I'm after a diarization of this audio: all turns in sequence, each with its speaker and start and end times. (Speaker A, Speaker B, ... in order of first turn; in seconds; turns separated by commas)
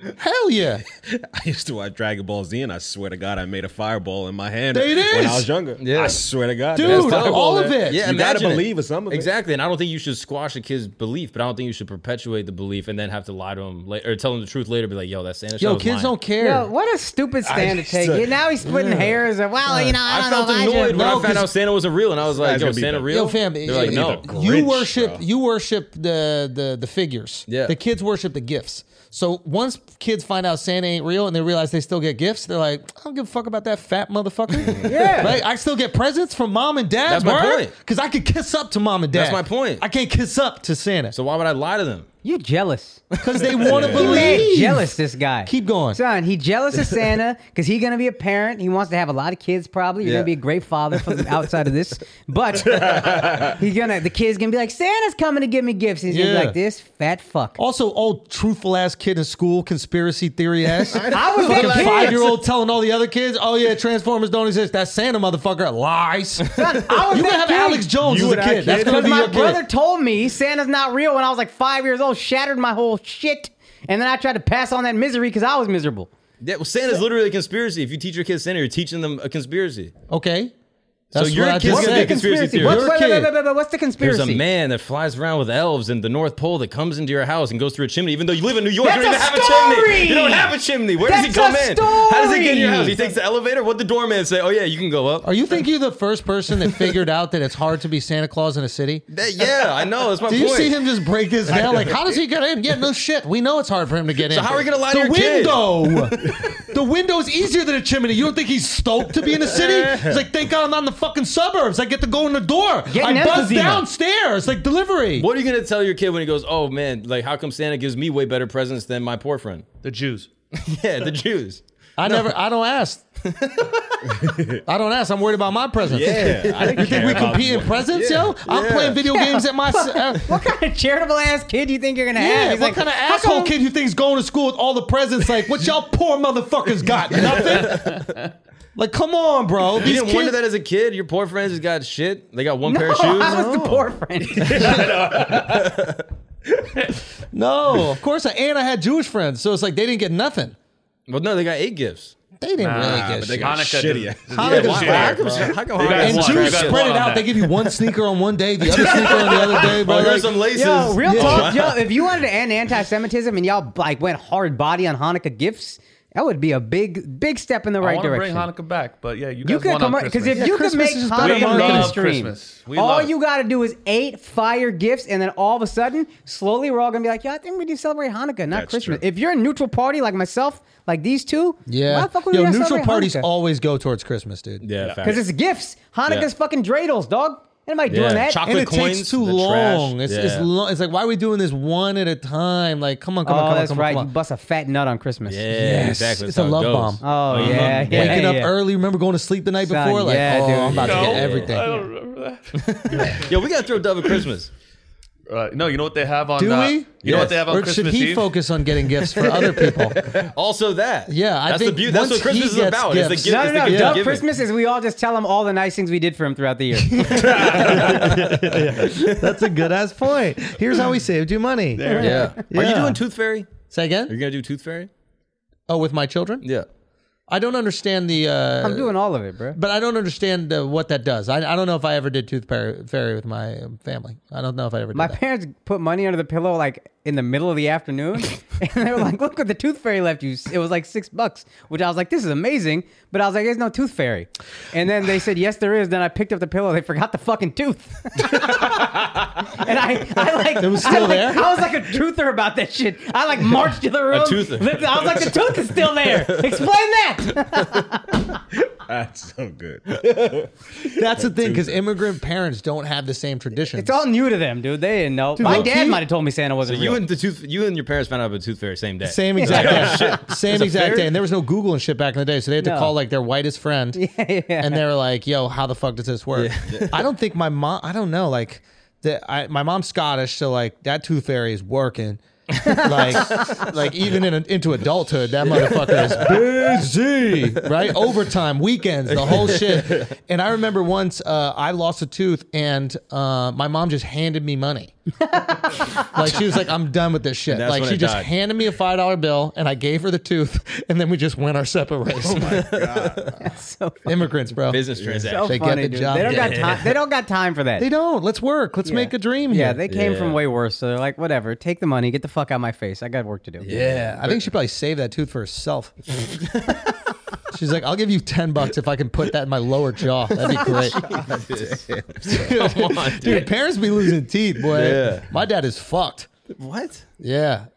Speaker A: 0.2-0.8, Speaker B: 0.9-9.3, Speaker A: 4.7-5.5, Speaker C: 5.8-16.2, Speaker A: 6.7-8.0, Speaker A: 15.6-16.7, Speaker D: 16.4-21.2, Speaker B: 17.4-18.4, Speaker A: 18.6-18.9, Speaker C: 20.0-24.3, Speaker A: 20.9-21.5, Speaker B: 22.3-25.2, Speaker A: 23.1-41.1, Speaker C: 27.5-27.7, Speaker D: 34.8-35.4, Speaker C: 37.1-37.7, Speaker C: 39.1-39.8, Speaker C: 41.1-42.1, Speaker D: 42.2-43.0, Speaker C: 43.1-44.4, Speaker A: 43.2-46.0, Speaker B: 43.7-44.1, Speaker D: 43.8-57.6, Speaker C: 50.0-50.3, Speaker C: 50.9-51.5, Speaker B: 52.6-53.5, Speaker A: 56.1-56.5, Speaker A: 57.6-69.6, Speaker B: 60.9-62.3, Speaker D: 61.1-62.2, Speaker D: 66.5-68.0, Speaker B: 68.0-69.4, Speaker D: 68.7-76.1, Speaker C: 76.4-79.9, Speaker A: 80.1-80.5, Speaker C: 81.1-82.9, Speaker A: 81.1-83.3, Speaker D: 81.6-84.4, Speaker C: 84.0-95.3, Speaker D: 88.8-93.0, Speaker A: 95.2-99.0, Speaker C: 99.1-100.8, Speaker A: 100.3-115.2, Speaker C: 101.5-101.8, Speaker C: 104.3-106.4, Speaker C: 109.5-110.0, Speaker D: 112.9-113.8, Speaker C: 115.2-119.7, Speaker E: 119.8-120.3, Speaker C: 120.5-122.2, Speaker A: 122.0-123.0, Speaker C: 123.2-124.1, Speaker B: 124.0-124.6, Speaker A: 124.6-130.3, Speaker C: 125.9-127.6, Speaker B: 125.9-128.3, Speaker C: 128.3-129.0, Speaker D: 129.0-133.5, Speaker A: 132.2-138.0, Speaker C: 137.5-138.0, Speaker E: 137.6-138.2, Speaker A: 138.8-140.4, Speaker C: 139.8-143.8, Speaker D: 142.6-144.5, Speaker C: 144.4-146.0, Speaker B: 144.7-145.4, Speaker E: 144.7-145.3, Speaker A: 147.3-150.6, Speaker C: 151.1-152.1, Speaker A: 152.4-153.6, Speaker E: 152.6-157.5, Speaker B: 152.8-155.9, Speaker A: 154.3-155.2, Speaker C: 154.4-156.9, Speaker A: 155.9-160.3, Speaker C: 158.7-162.1, Speaker D: 160.5-168.5, Speaker A: 161.0-161.5, Speaker E: 167.8-170.6, Speaker D: 169.4-183.2, Speaker A: 170.3-172.0, Speaker E: 171.1-173.1, Speaker B: 178.5-179.0, Speaker A: 181.7-184.6, Speaker C: 184.6-185.2, Speaker E: 184.8-185.1, Speaker D: 185.0-188.4, Speaker C: 187.9-190.5, Speaker A: 188.4-194.1, Speaker D: 193.2-195.6, Speaker C: 195.2-198.2, Speaker A: 195.5-201.8, Speaker D: 197.0-198.6, Speaker D: 199.6-201.1, Speaker C: 200.3-201.6, Speaker E: 200.7-203.2, Speaker C: 202.6-204.5, Speaker E: 205.3-208.3, Speaker A: 206.4-210.0, Speaker C: 207.0-207.4, Speaker C: 209.1-214.3, Speaker A: 211.1-214.0, Speaker D: 213.2-217.2, Speaker A: 217.0-223.0, Speaker C: 217.1-219.3, Speaker B: 217.3-217.9, Speaker E: 221.8-222.3, Speaker D: 221.8-222.3, Speaker C: 222.0-223.5, Speaker A: 223.7-224.1, Speaker C: 224.1-224.9, Speaker A: 225.7-226.4, Speaker C: 226.4-226.7, Speaker A: 227.3-228.9, Speaker D: 228.6-229.6, Speaker A: 229.5-235.2, Speaker D: 234.9-258.2, Speaker A: 250.6-251.5, Speaker C: 254.1-256.5, Speaker B: 258.8-261.8, Speaker A: 260.9-264.0, Speaker D: 263.7-267.0, Speaker A: 265.4-266.0, Speaker C: 266.6-271.1, Speaker A: 269.0-274.0, Speaker D: 269.4-270.1, Speaker D: 272.6-272.9, Speaker D: 273.9-274.8, Speaker A: 274.6-294.9, Speaker C: 276.3-277.0, Speaker D: 282.6-283.6, Speaker C: 283.1-283.6, Speaker C: 285.5-286.8, Speaker C: 289.1-290.1, Speaker A: 295.5-302.6, Speaker C: 297.5-298.3, Speaker B: 302.2-303.4, Speaker C: 302.4-303.4, Speaker D: 303.4-304.1, Speaker A: 304.0-304.8, Speaker C: 304.7-305.6, Speaker B: 304.9-305.3, Speaker D: 305.3-307.9, Speaker A: 305.5-306.6, Speaker C: 306.1-307.0, Speaker A: 307.8-309.8, Speaker D: 308.8-313.7, Speaker C: 309.9-310.4, Speaker C: 313.6-314.5, Speaker A: 313.7-315.9, Speaker C: 316.3-317.0, Speaker A: 317.5-321.0, Speaker C: 320.3-323.5, Speaker B: 321.5-322.2, Speaker A: 322.3-326.3, Speaker C: 324.7-325.3, Speaker C: 326.6-327.1, Speaker A: 327.2-327.7